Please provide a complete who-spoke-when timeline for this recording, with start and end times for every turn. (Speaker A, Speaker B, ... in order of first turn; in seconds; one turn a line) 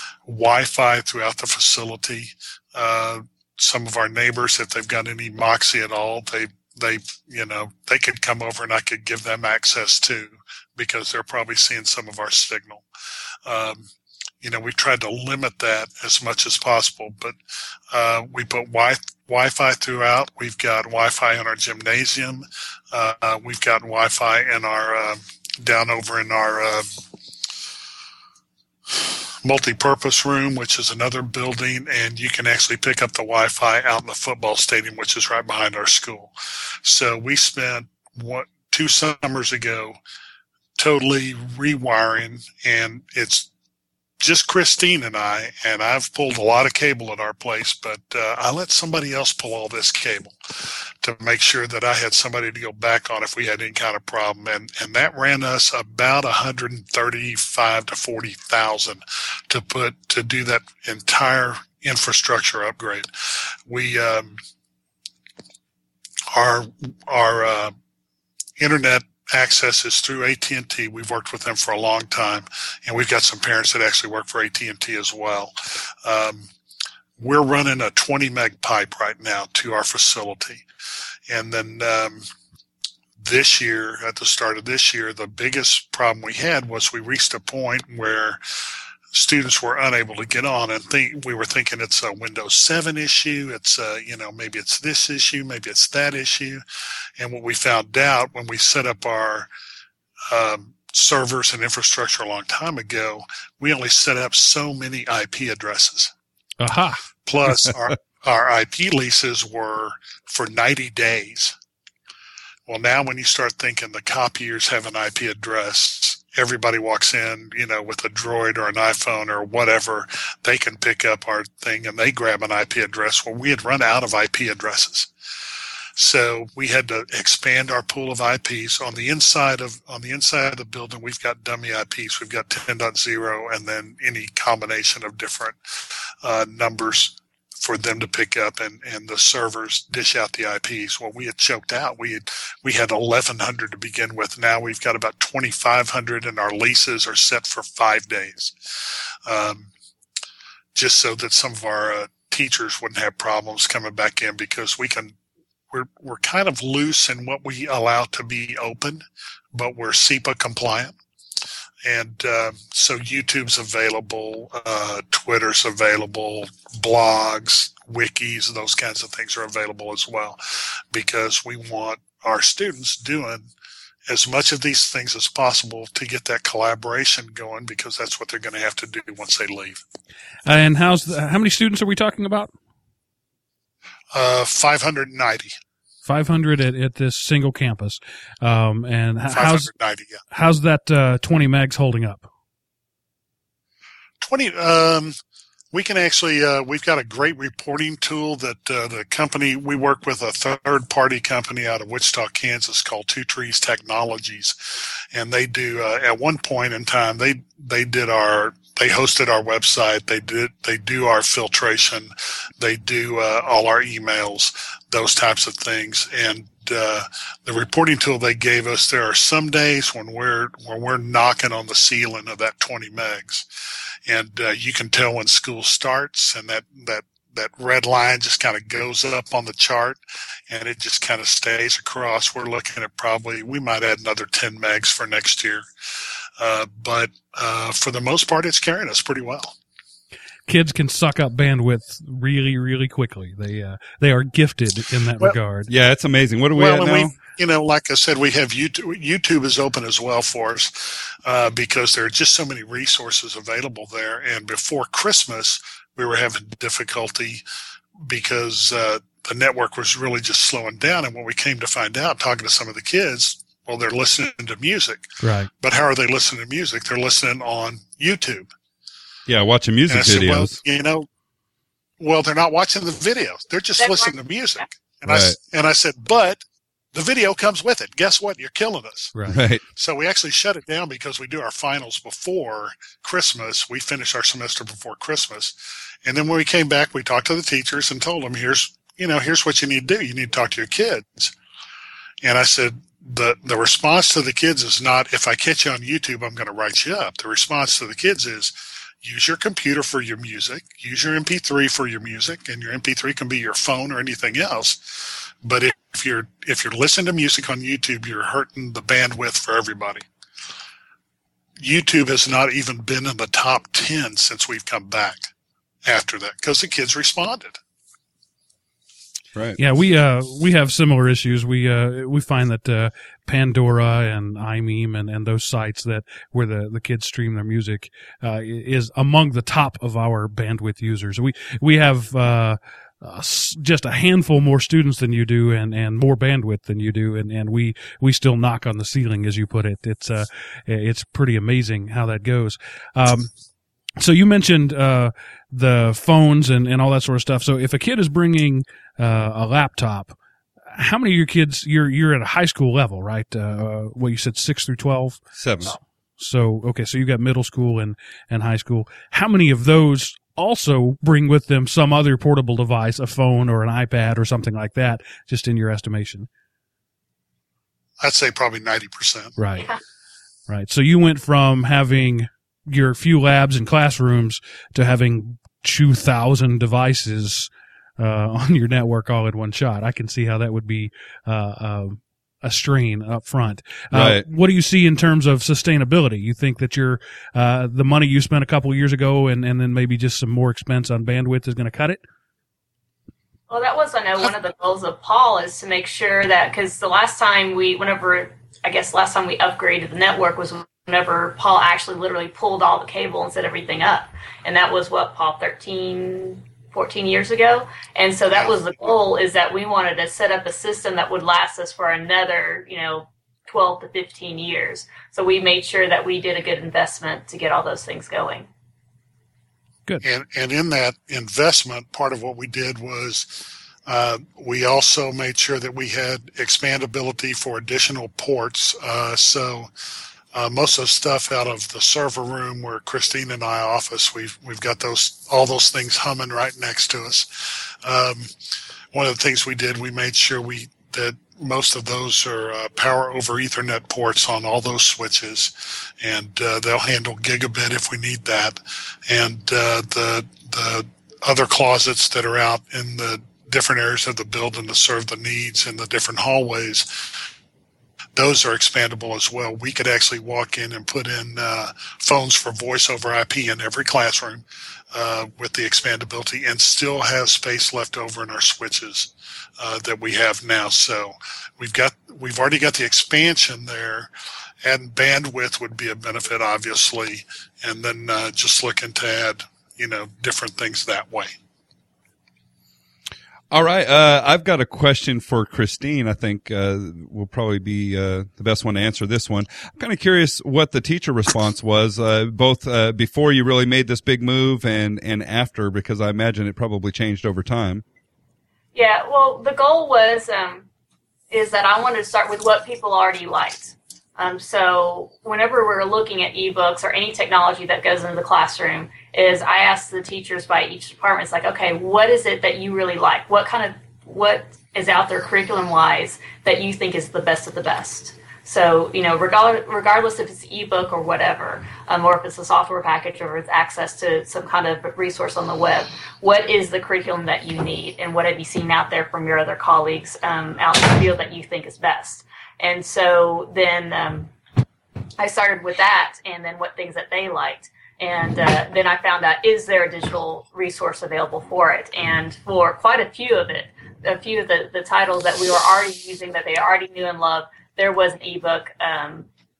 Speaker A: 0.2-12.8
Speaker A: 13.4-13.8
Speaker A: 14.4-17.4
Speaker A: 17.9-27.0
Speaker A: 29.4-40.0
Speaker A: 40.8-43.5
Speaker A: 44.2-50.3
Speaker A: 51.0-63.1
Speaker A: 63.7-64.4
Speaker A: 66.3-67.7
Speaker A: 68.6-76.5
Speaker A: 77.2-80.6
Speaker A: 81.3-82.2
Speaker A: 83.2-88.4
Speaker A: 89.1-96.6
Speaker A: 97.2-99.5
Speaker A: 100.3-106.1
Speaker B: 106.6-107.0
Speaker A: 107.2-111.5
Speaker A: 112.7-125.1
Speaker A: 126.0-149.7
Speaker A: 150.7-155.1
Speaker A: 155.7-160.9
Speaker A: 161.8-170.4
Speaker A: 170.9-173.5
Speaker A: 174.1-179.8
Speaker B: 180.4-182.5
Speaker A: 184.1-185.6
Speaker B: 186.0-189.7
Speaker A: 189.3-190.2
Speaker B: 190.3-192.2
Speaker A: 194.2-195.2
Speaker A: 195.7-223.5
Speaker A: 224.1-235.7
Speaker A: 236.4-239.6
Speaker B: 240.5-245.7
Speaker C: 245.7-247.1
Speaker A: 246.6-257.4
Speaker A: 258.0-268.5
Speaker B: 265.2-265.5
Speaker C: 269.3-270.6
Speaker A: 269.9-271.1
Speaker A: 272.0-276.4
Speaker D: 273.8-274.1
Speaker C: 275.0-275.4
Speaker A: 276.9-279.1
Speaker B: 279.1-279.4
Speaker C: 279.3-279.6
Speaker A: 279.7-291.3
Speaker A: 292.2-310.1
Speaker A: 311.6-315.3
Speaker A: 315.8-317.6
Speaker C: 319.3-319.6
Speaker B: 319.6-343.3
Speaker B: 344.0-350.1
Speaker B: 350.7-366.3
Speaker C: 355.4-355.8
Speaker A: 368.0-369.3
Speaker B: 369.4-369.7
Speaker B: 370.5-392.0
Speaker C: 383.9-384.2
Speaker D: 393.5-418.5
Speaker A: 420.0-429.7
Speaker A: 430.3-438.3
Speaker A: 438.9-457.3
Speaker A: 458.1-474.1
Speaker A: 474.6-481.3
Speaker C: 483.5-497.8
Speaker D: 498.7-500.6
Speaker D: 501.3-534.3
Speaker D: 535.2-549.3